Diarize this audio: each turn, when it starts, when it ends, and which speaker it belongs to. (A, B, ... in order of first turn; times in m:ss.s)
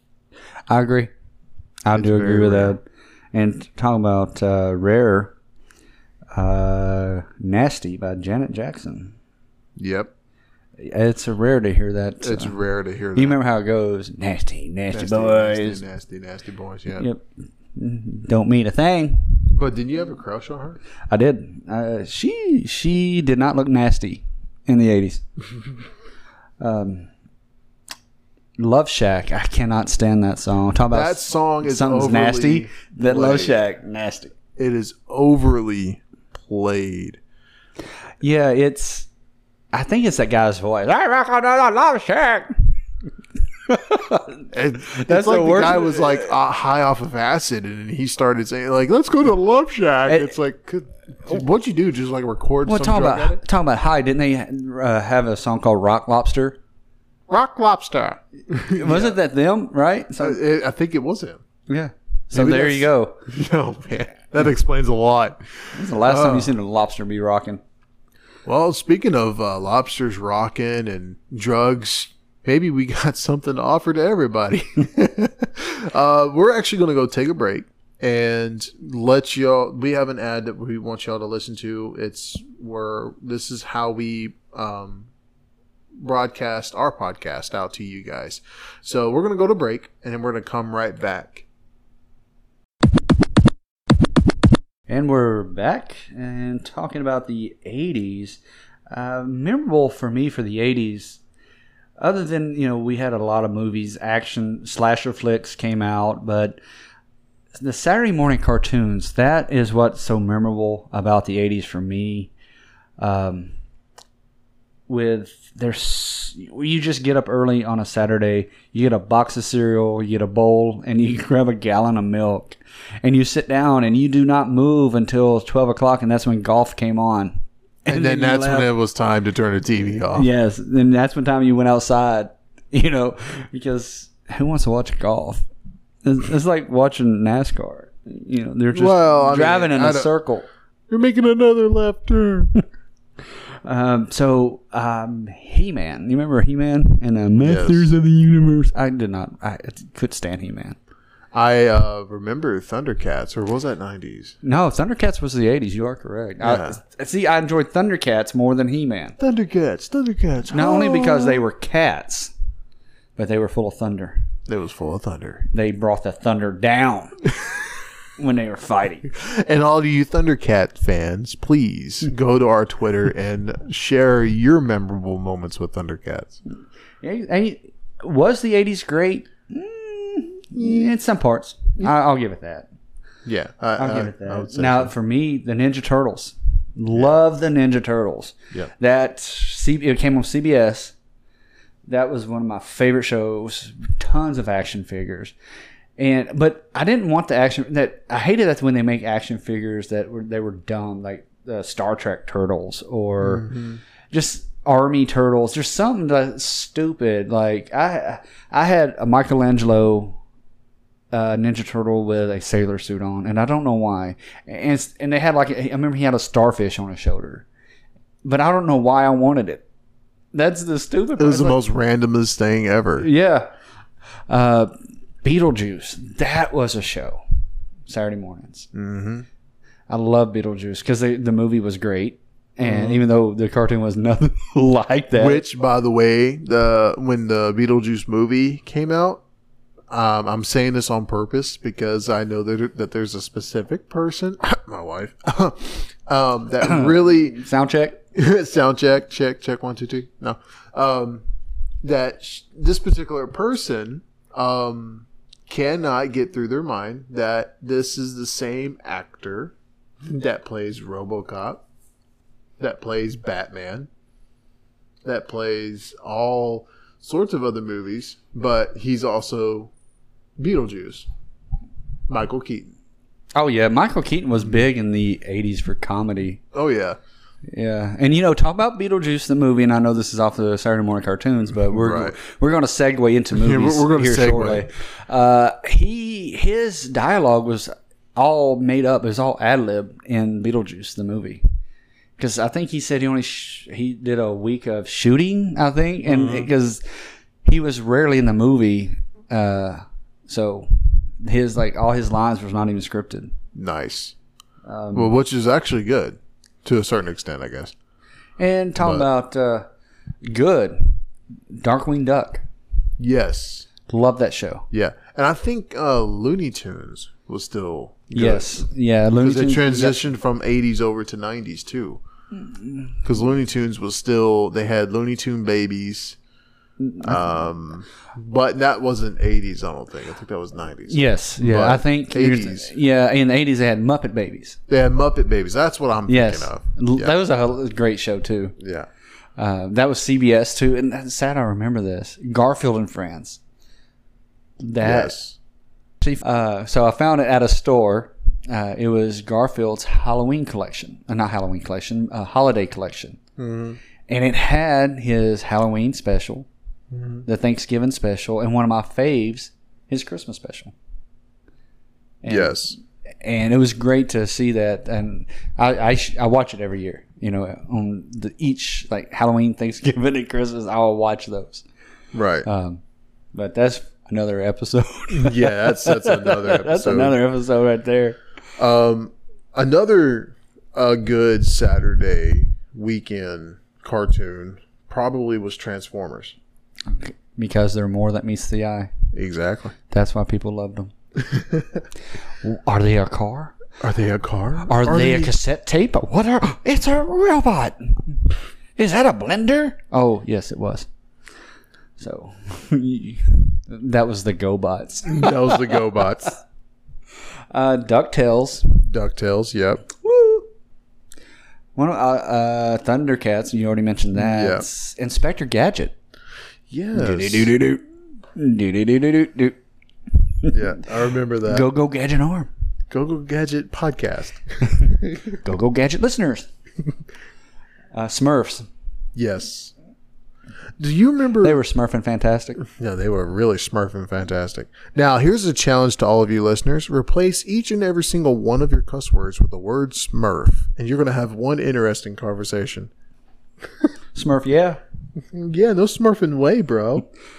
0:00.7-0:01.1 A
0:01.8-0:02.8 A
0:01.9-0:02.8 B
0:03.3-0:05.3 A
0:06.3-0:09.1 A
0:09.8-0:10.1 B
0:10.8-0:12.6 A
0:12.2-0:13.4 B
0:13.1-0:15.8 A
0:14.9-0:17.1 B
0:17.0-0:17.2 A
0:17.8-0:19.5 A
0:19.5-0:20.8 B
0:21.1-0:25.2 A
0:26.6-0:27.1 A
0:28.6-0:34.3 A
0:30.9-0:33.6 B
0:34.6-0:37.2 B
0:38.2-0:39.1 A
0:39.7-0:42.6 A
0:43.7-0:46.3 A
0:44.5-0:53.4 B
0:50.1-0:50.3 A
0:52.6-0:56.6 A
0:57.3-0:59.2 B
0:58.6-1:00.4 A
1:00.2-1:01.4 B
1:01.7-1:03.2 A
1:02.3-1:05.4 B
1:05.7-1:07.6 A
1:06.0-1:06.5 B
1:08.4-1:25.1 B
1:26.0-1:31.4 B
1:34.9-1:38.4 A
1:38.9-1:41.2 A
1:42.0-1:46.6 A
1:47.6-1:52.3 A
1:53.0-1:53.5 A
1:54.9-2:08.7 A
2:07.9-2:10.3 B
2:10.1-2:15.4 A
2:16.0-2:20.4 A
2:18.7-2:20.1 B
2:20.9-2:22.6 B
2:23.6-2:30.8 A
2:27.4-2:27.9 B
2:31.3-2:34.4 B
2:34.4-2:39.2 A
2:36.4-2:36.8 B
2:39.2-2:41.4 B
2:40.5-2:42.3 A
2:43.2-2:44.2 A
2:44.5-2:45.5 B
2:45.5-2:47.2 A
2:48.2-2:49.1 A
2:49.1-2:56.4 B
2:57.0-3:02.7 A
3:03.2-3:04.9 B
3:03.8-3:10.9 A
3:11.9-3:15.3 A
3:16.0-3:23.5 A
3:23.2-3:23.8 B
3:24.1-3:30.2 A
3:31.1-3:37.4 A
3:38.2-3:39.6 A
3:40.3-3:41.6 A
3:41.2-3:43.1 B
3:43.0-3:43.5 A
3:44.3-3:44.7 A
3:45.2-3:47.2 A
3:47.9-3:48.7 A
3:48.7-3:49.3 B
3:49.9-3:55.4 A
3:52.6-3:53.0 B
3:55.1-3:59.2 B
3:59.9-4:07.4 B
4:06.6-4:08.0 A
4:08.1-4:11.2 B
4:11.8-4:21.6 B
4:22.6-4:23.9 B
4:25.0-4:29.7 B
4:30.4-4:31.1 B
4:32.1-4:32.7 B
4:33.4-4:36.4 A
4:36.5-4:37.0 B
4:37.5-4:51.4 A
4:41.7-4:42.2 B
4:43.3-4:44.6 B
4:52.2-4:56.8 A
4:56.1-4:56.5 B
4:57.4-5:00.7 A
5:01.2-5:03.3 A
5:03.6-5:04.2 B
5:04.6-5:05.1 A
5:04.9-5:07.7 B
5:08.4-5:09.6 A
5:08.8-5:09.1 B
5:10.2-5:11.0 A
5:11.6-5:12.4 A
5:13.0-5:13.7 B
5:13.9-5:14.6 A
5:14.7-5:18.6 B
5:18.1-5:20.1 A
5:19.2-5:22.0 B
5:22.4-5:23.0 A
5:23.0-5:26.2 B
5:26.8-5:27.2 A
5:27.0-5:32.7 B
5:30.9-5:34.6 A
5:34.7-5:37.1 B
5:36.1-5:38.6 A
5:38.6-5:38.9 B
5:39.4-5:43.4 A
5:44.6-5:45.1 A
5:44.8-5:45.4 B
5:46.0-5:53.2 A
5:53.4-5:53.8 B
5:54.1-5:56.5 A
5:56.9-5:57.2 B
5:57.3-6:00.7 A
6:02.2-6:11.6 A
6:02.3-6:02.8 B
6:12.1-6:12.5 B
6:12.4-6:12.8 A
6:13.4-6:18.2 A
6:15.1-6:17.2 B
6:18.6-6:26.4 B
6:26.9-6:28.9 A
6:29.1-6:29.8 B
6:29.9-6:30.9 A
6:31.3-6:31.6 B
6:32.4-6:33.6 A
6:33.8-6:35.3 B
6:34.6-6:37.9 A
6:38.8-6:40.9 A
6:42.0-6:45.8 A
6:45.0-6:46.4 B
6:47.5-6:48.7 A
6:48.8-6:49.9 B
6:50.0-6:50.4 A
6:51.8-6:55.9 A
6:54.1-6:54.6 B
6:56.7-6:57.6 B
6:56.9-6:57.8 A
6:58.4-6:59.6 A
7:00.5-7:01.7 B
7:01.5-7:02.5 A
7:02.9-7:05.4 B
7:04.7-7:06.5 A
7:07.9-7:08.7 A
7:09.1-7:09.7 B
7:10.8-7:11.6 B
7:11.4-7:12.6 A
7:12.6-7:22.9 B
7:24.1-7:24.8 A
7:25.2-7:27.0 B